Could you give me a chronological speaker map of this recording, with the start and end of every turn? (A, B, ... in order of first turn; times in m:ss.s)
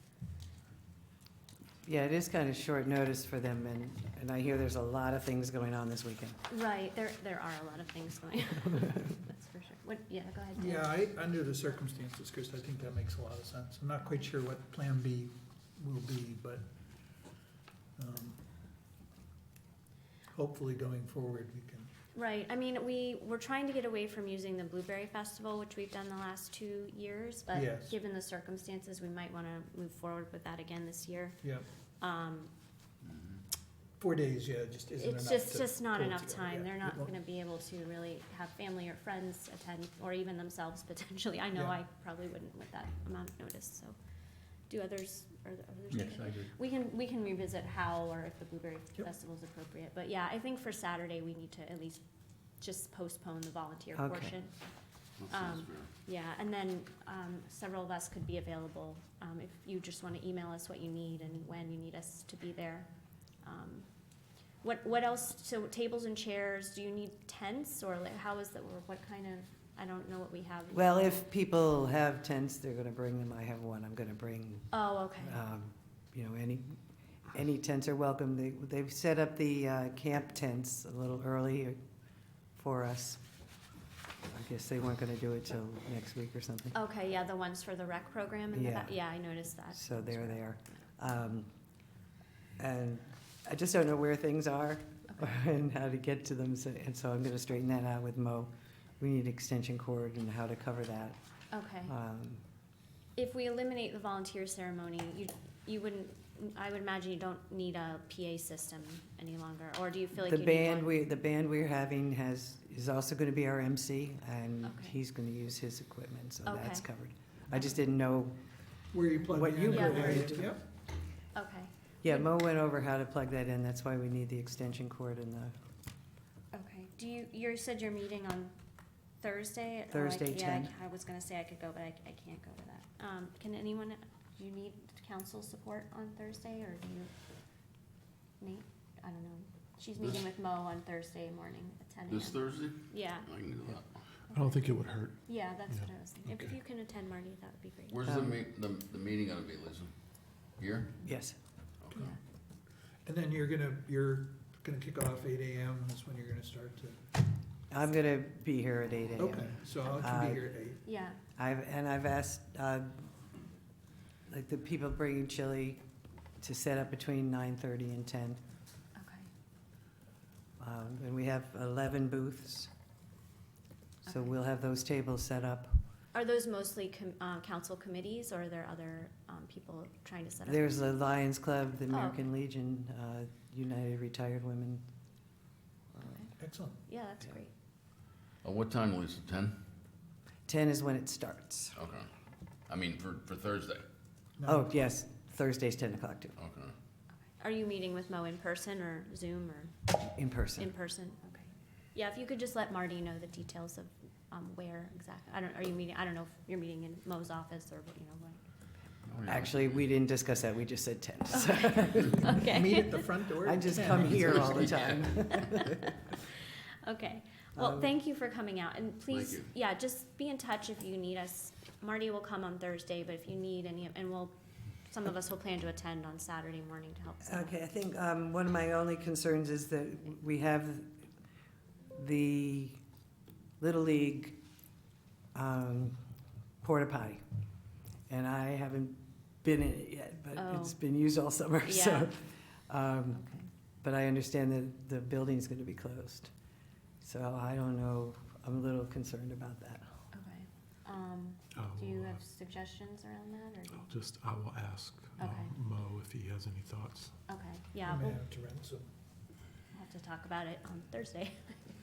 0:01.8-0:06.4 A
0:06.5-0:11.0 B
0:10.6-0:16.7 C
0:18.0-0:18.4 C
0:20.3-0:21.9 C
0:22.1-0:31.4 B
0:27.5-0:28.0 C
0:32.0-0:32.5 B
0:34.0-0:37.1 C
0:35.0-0:44.0 B
0:41.5-0:41.8 C
0:44.7-0:52.0 B
0:52.6-0:54.5 B
0:54.0-0:54.3 A
0:55.2-0:55.9 D
0:55.3-1:02.9 B
1:03.4-1:03.9 B
1:04.6-1:11.2 B
1:10.7-1:16.8 A
1:14.7-1:15.4 B
1:17.3-1:21.8 A
1:22.5-1:23.2 A
1:24.3-1:26.7 A
1:26.7-1:30.4 B
1:28.5-1:29.0 A
1:29.7-1:31.5 A
1:32.6-1:41.2 A
1:41.5-1:41.9 B
1:41.8-1:42.4 A
1:43.2-1:51.0 B
1:50.2-1:58.4 A
1:54.6-1:55.0 B
1:56.4-1:56.9 B
1:58.9-2:00.6 C
1:59.3-2:00.5 A
1:59.7-2:00.3 B
2:01.3-2:02.2 B
2:02.0-2:05.6 A
2:06.5-2:08.6 B
2:09.2-2:17.1 B
2:09.9-2:10.7 A
2:18.4-2:23.3 B
2:22.1-2:24.0 D
2:24.3-2:24.6 B
2:24.3-2:26.5 E
2:25.2-2:28.0 B
2:27.9-2:29.9 D
2:28.1-2:28.4 A
2:30.6-2:31.0 D
2:31.0-2:31.4 A
2:33.0-2:37.0 C
2:37.7-2:40.5 A
2:39.2-2:40.8 C
2:40.8-2:41.2 B
2:41.4-2:43.1 A
2:44.3-2:45.8 A
2:46.4-2:48.4 A
2:49.0-2:49.3 B
2:50.6-2:52.7 A
2:54.0-2:55.8 A
2:56.1-3:00.8 B
3:00.5-3:04.8 A
3:01.9-3:02.2 B
3:05.9-3:06.2 A
3:06.4-3:06.8 C
3:06.9-3:07.5 B
3:08.4-3:09.6 D
3:10.5-3:11.8 A
3:11.8-3:12.1 D
3:12.7-3:13.8 D
3:14.4-3:14.6 C
3:14.5-3:16.4 A
3:16.4-3:16.7 D
3:17.4-3:19.8 B
3:20.0-3:20.7 A
3:20.6-3:28.4 B
3:29.1-3:29.8 D
3:29.3-3:32.5 A
3:31.4-3:33.3 B
3:32.2-3:34.7 C
3:33.4-3:35.9 A
3:34.2-3:35.0 D
3:35.3-3:35.9 B
3:36.8-3:44.3 B
3:37.6-3:37.9 A
3:39.1-3:39.5 D
3:44.9-3:47.5 B
3:47.2-3:51.0 A
3:51.9-3:52.8 A
3:53.6-3:54.4 A
3:55.3-3:56.0 A
3:56.6-3:57.2 A
3:58.1-4:03.2 A
4:00.3-4:00.8 B
4:01.6-4:02.1 B
4:03.2-4:03.5 B
4:03.8-4:06.3 A
4:07.0-4:10.0 A
4:10.1-4:13.9 B
4:11.5-4:12.2 E
4:13.8-4:17.1 E
4:15.2-4:15.5 B
4:17.3-4:18.2 B
4:17.8-4:18.9 C
4:19.7-4:21.7 B